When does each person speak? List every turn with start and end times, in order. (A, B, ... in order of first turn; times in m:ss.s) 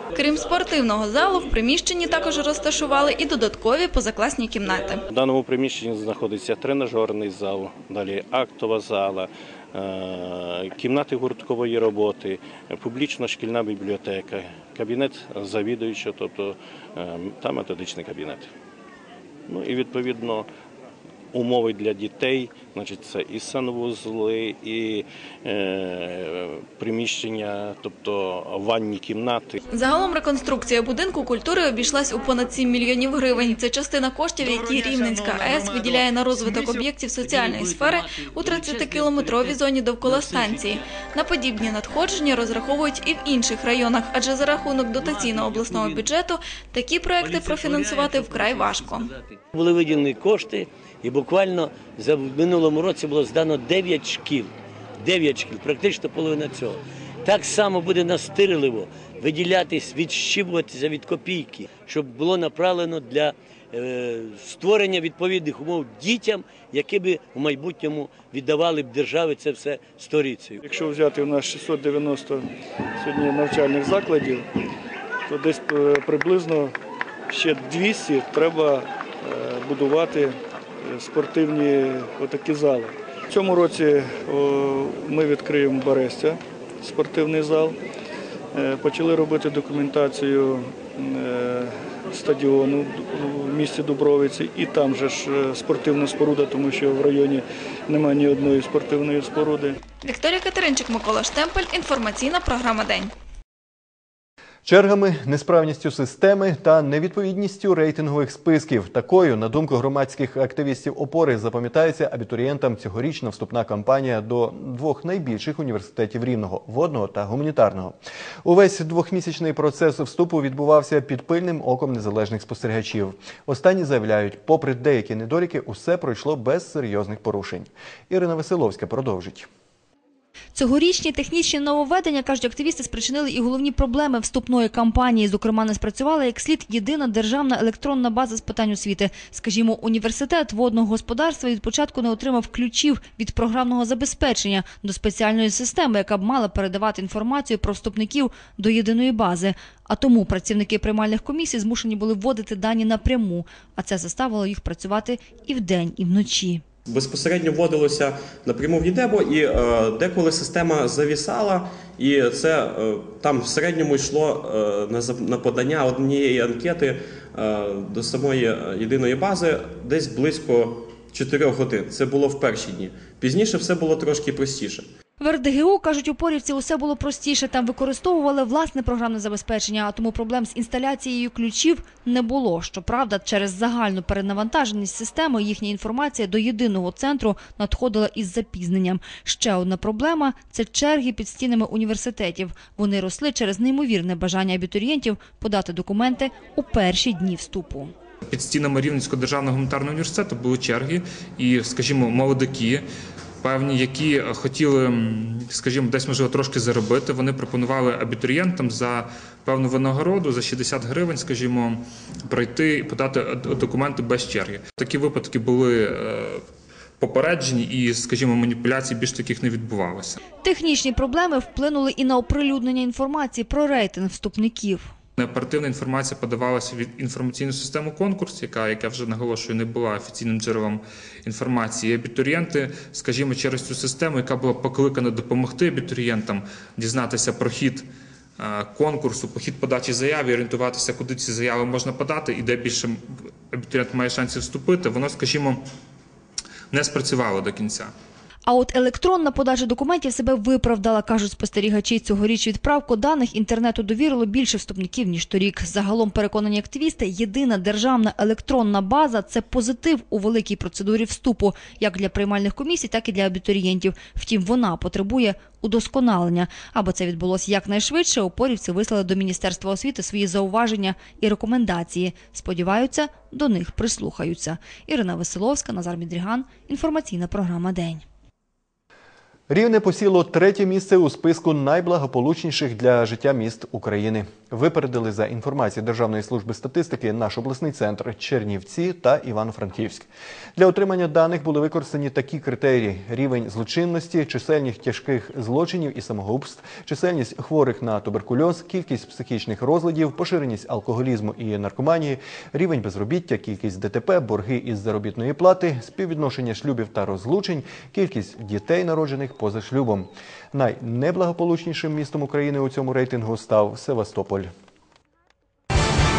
0:00.1-0:05.0 A
0:05.1-0:18.5 B
0:19.5-0:20.4 B
0:21.3-0:29.6 B
0:29.7-0:49.1 A
0:49.5-1:10.5 C
1:10.6-1:12.4 D
1:13.0-1:14.5 D
1:15.3-1:16.7 D
1:17.3-1:27.8 D
1:28.5-1:39.8 D
1:40.0-1:43.1 A
1:44.7-2:09.5 E
2:10.5-2:36.6 F
2:36.9-2:54.9 G
2:55.2-3:17.9 F
3:18.3-3:22.8 H
3:23.4-3:36.4 H
3:37.0-3:40.2 H
3:40.4-3:44.9 F
3:45.2-3:57.8 H
3:58.4-4:03.0 H
4:03.5-4:05.6 H
4:06.7-4:07.9 H
4:08.5-4:38.0 F
4:39.5-5:14.5 E